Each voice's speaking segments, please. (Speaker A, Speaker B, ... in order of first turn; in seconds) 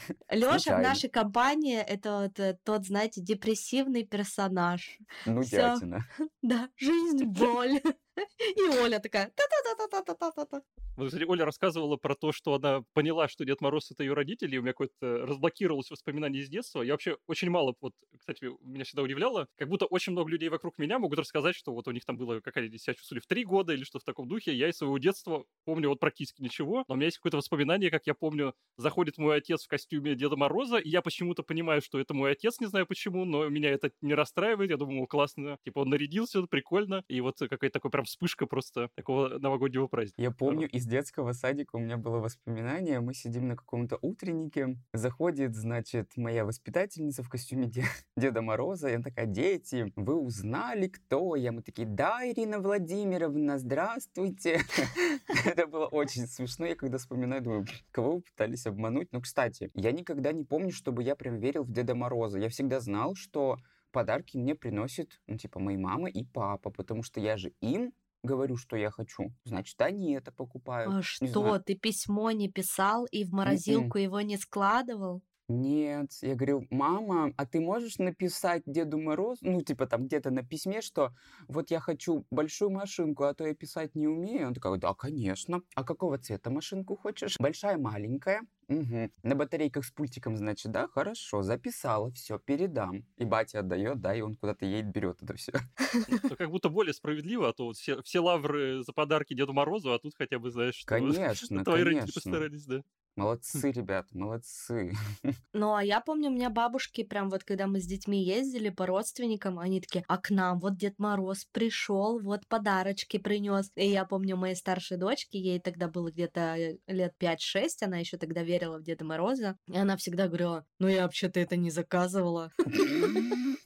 Speaker A: 0.3-5.8, 6.4-10.6, 70.8-75.2, 105.5-123.4
Speaker B: 0.5-1.0, 5.2-6.0, 40.2-71.5, 73.5-73.9, 75.5-95.6, 100.9-102.5, 103.2-105.3, 122.8-123.3
Speaker C: 11.0-40.6, 96.1-102.8